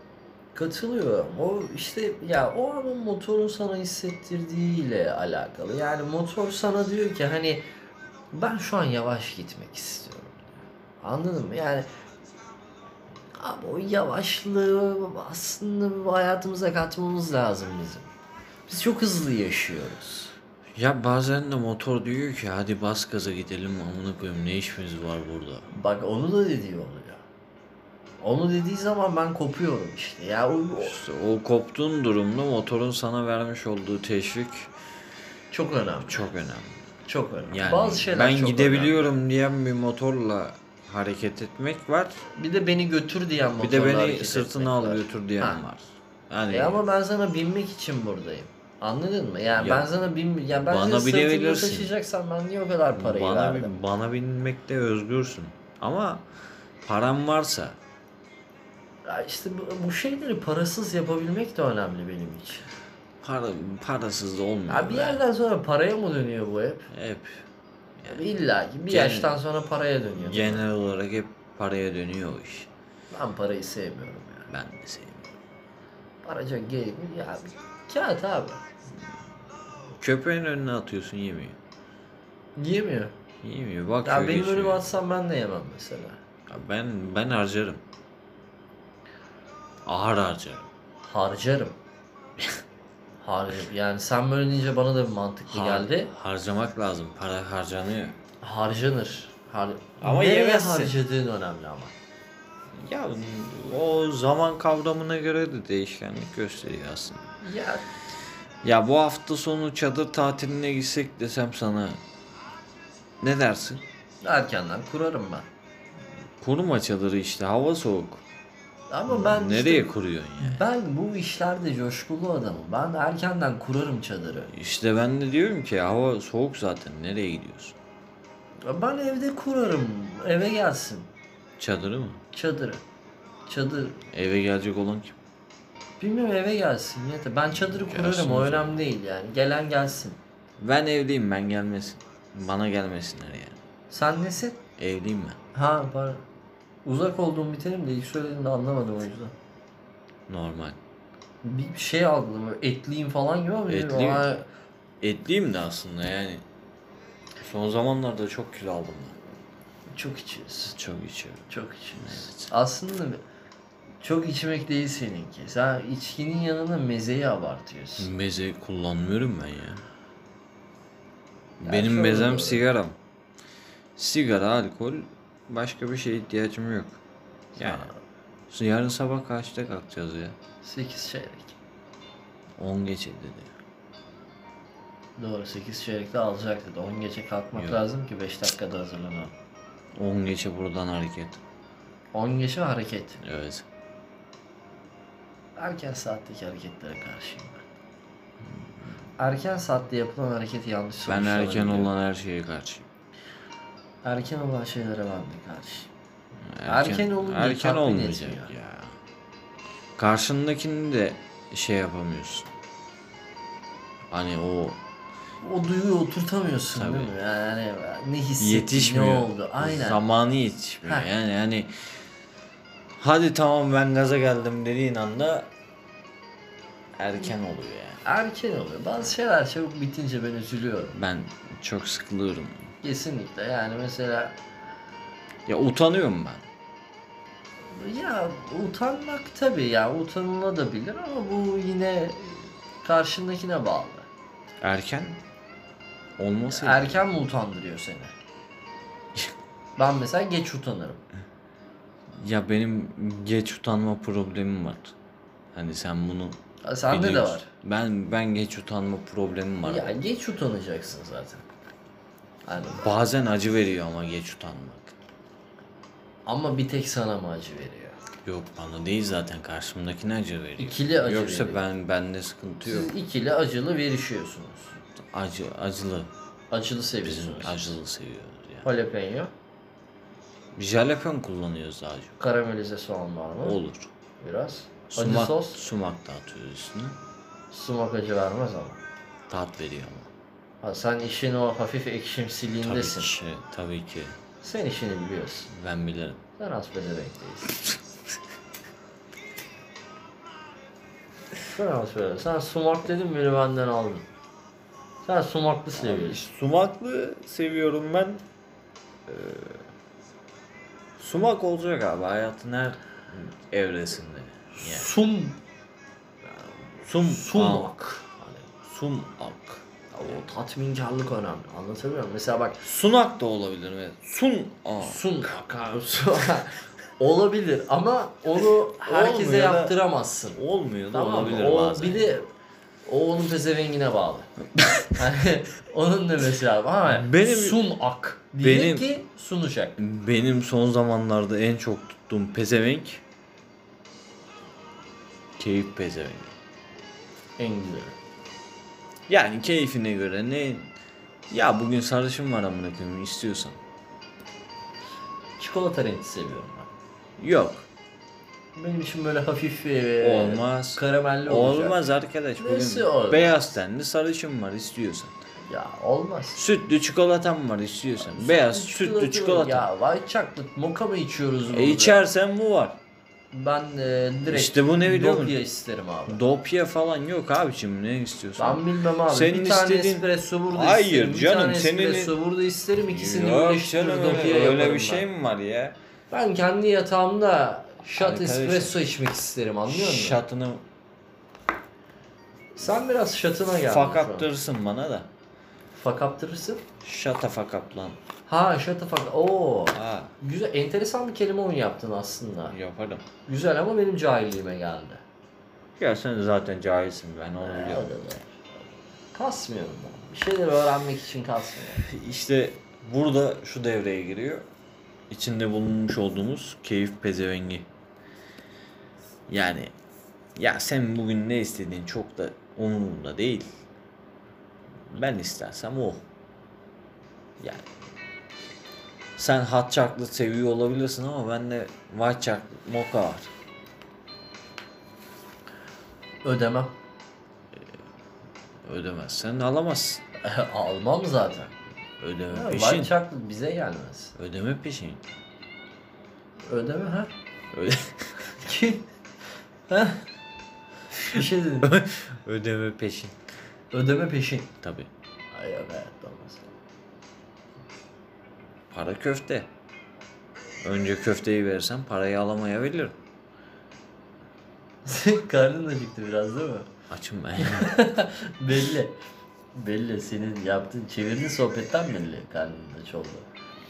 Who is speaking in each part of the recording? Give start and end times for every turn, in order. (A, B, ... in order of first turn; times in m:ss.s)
0:00.5-0:07.6 A
0:08.3-0:10.4 A
0:11.0-0:11.9 A
0:13.4-0:18.1 A
0:18.7-0:20.3 A
0:20.7-0:25.7 B
0:25.7-0:27.2 A
0:28.2-0:31.0 A
0:30.8-0:34.7 B
0:35.5-0:36.3 A
0:36.1-0:36.8 B
0:37.0-0:39.0 A
0:37.4-0:42.2 B
0:42.3-0:45.6 A
0:43.6-0:46.8 B
0:46.5-0:53.8 A
0:49.5-0:49.9 B
0:50.6-0:51.9 B
0:52.9-0:56.2 B
0:56.8-0:57.8 B
0:59.0-1:02.7 A
1:03.2-1:05.2 B
1:04.7-1:06.9 A
1:06.9-1:07.4 B
1:08.1-1:10.6 A
1:08.9-1:09.3 B
1:10.2-1:12.7 B
1:13.1-1:14.5 A
1:14.5-1:15.3 B
1:16.2-1:18.6 A
1:20.0-1:21.6 B
1:22.6-1:23.1 A
1:23.4-1:24.8 B
1:24.0-1:26.2 A
1:26.5-1:27.8 B
1:29.8-1:30.7 B
1:31.0-1:31.7 A
1:33.2-1:36.1 A
1:35.5-1:38.2 B
1:38.4-1:41.9 A
1:40.0-1:40.9 B
1:42.7-1:47.2 B
1:47.4-1:47.8 A
1:48.6-1:52.0 B
1:53.2-1:53.8 B
1:54.2-1:55.5 A
1:56.4-1:58.2 B
1:58.9-2:04.5 A
1:59.1-2:00.6 B
2:04.5-2:07.8 B
2:08.6-2:11.1 A
2:11.6-2:12.2 B
2:12.3-2:12.8 A
2:13.5-2:14.0 A
2:14.1-2:15.2 B
2:16.0-2:20.2 A
2:17.5-2:18.8 B
2:20.6-2:23.6 B
2:23.9-2:24.6 A
2:24.8-2:25.4 B
2:25.5-2:26.2 A
2:26.8-2:29.3 A
2:30.3-2:30.8 B
2:31.4-2:34.4 A
2:33.7-2:34.3 B
2:35.0-2:36.4 B
2:37.4-2:39.2 B
2:39.9-2:40.8 A
2:40.7-2:42.5 B
2:41.5-2:43.2 A
2:44.0-2:48.1 A
2:48.0-2:49.8 B
2:51.6-2:53.0 B
2:51.6-2:52.6 A
2:54.0-2:57.0 B
2:57.5-2:57.9 A
2:57.6-2:57.9 B
2:58.5-3:00.4 B
3:00.6-3:01.6 A
3:02.6-3:03.5 B
3:05.2-3:09.3 A
3:07.5-3:07.8 B
3:10.0-3:11.4 B
3:12.1-3:13.2 A
3:13.2-3:13.6 B
3:15.6-3:17.6 A
3:18.5-3:18.7 B
3:19.2-3:21.9 A
3:21.1-3:22.9 B
3:24.0-3:25.9 A
3:26.4-3:29.0 B
3:26.6-3:28.5 A
3:30.0-3:32.5 B
3:34.1-3:34.8 B
3:35.4-3:40.0 A
3:36.7-3:37.1 B
3:38.4-3:41.9 B
3:43.0-3:45.5 B
3:47.0-3:48.0 B
3:48.0-3:50.9 A
3:50.9-3:52.7 B
3:52.8-3:54.4 A
3:55.5-3:56.4 B
3:57.7-4:04.1 A
4:04.6-4:05.2 B
4:06.2-4:07.0 B
4:06.5-4:08.1 A
4:09.8-4:11.0 A
4:12.1-4:14.9 B
4:15.5-4:19.9 B
4:16.6-4:17.5 A
4:19.6-4:21.4 A
4:22.4-4:22.9 A
4:22.7-4:24.9 B
4:26.2-4:28.0 A
4:28.2-4:32.9 B
4:30.6-4:31.6 A
4:32.6-4:34.7 A
4:35.0-4:36.1 B
4:36.5-4:37.8 A
4:37.0-4:38.6 B
4:38.6-4:39.3 A
4:40.5-4:42.2 B
4:42.2-4:43.6 A
4:43.4-4:43.9 B
4:44.2-4:45.6 A
4:44.9-4:47.0 B
4:47.5-4:48.8 A
4:49.3-4:50.1 B
4:50.6-4:53.1 A
4:52.6-4:54.2 B
4:54.4-4:55.5 A
4:55.5-4:56.2 B
4:56.4-4:57.6 A
5:01.4-5:04.1 A
5:05.0-5:06.2 A
5:05.8-5:08.2 B
5:09.1-5:09.6 B
5:11.0-5:14.9 B
5:14.6-5:15.4 A
5:16.8-5:18.0 B
5:16.9-5:18.5 A
5:18.6-5:19.6 B
5:19.9-5:22.6 A
5:22.6-5:25.3 B
5:24.8-5:30.4 A
5:28.8-5:29.7 B
5:30.3-5:32.1 B
5:30.9-5:32.3 A
5:32.8-5:34.3 A
5:34.6-5:34.9 B
5:34.9-5:39.8 A
5:36.8-5:37.7 B
5:38.4-5:38.9 B
5:39.8-5:43.0 B
5:45.4-5:46.3 B
5:47.4-5:47.9 A
5:49.1-5:50.7 B
5:51.3-5:53.6 B
5:55.4-5:56.7 A
5:57.2-5:57.7 B
5:58.6-6:01.8 A
6:00.0-6:05.2 B
6:02.4-6:03.4 A
6:05.4-6:06.4 A
6:06.3-6:09.7 B
6:08.0-6:12.0 A
6:11.5-6:12.8 B
6:13.3-6:16.2 A
6:14.3-6:15.4 B
6:16.1-6:22.1 B
6:18.4-6:25.1 A
6:22.8-6:25.8 B
6:26.1-6:30.2 A
6:27.9-6:28.8 B
6:29.7-6:30.6 B
6:32.5-6:34.3 A
6:33.6-6:35.1 B
6:35.7-6:36.6 A
6:36.8-6:38.0 B
6:38.3-6:42.6 A
6:39.7-6:40.1 B
6:42.5-6:43.1 B
6:43.2-6:45.0 A
6:45.8-6:48.0 B
6:47.4-6:48.6 A
6:49.1-6:51.8 A
6:51.8-6:54.5 B
6:55.1-6:57.7 B
6:59.3-6:59.7 B
7:00.4-7:03.5 B
7:04.9-7:06.0 B
7:07.4-7:07.7 B
7:09.2-7:13.3 B
7:16.2-7:16.8 A
7:18.6-7:20.0 B
7:20.2-7:21.6 A
7:22.0-7:22.9 B
7:22.3-7:24.1 A
7:24.2-7:25.0 B
7:26.5-7:27.1 A
7:27.5-7:28.4 B
7:28.4-7:28.9 A
7:29.7-7:30.0 A
7:31.0-7:33.2 B
7:31.0-7:31.7 A
7:33.7-7:34.5 A
7:34.6-7:34.9 B
7:35.3-7:36.5 A
7:38.7-7:39.5 B
7:40.6-7:43.0 B
7:44.8-7:46.7 A
7:46.9-7:47.8 B
7:47.4-7:49.0 A
7:49.5-7:53.3 A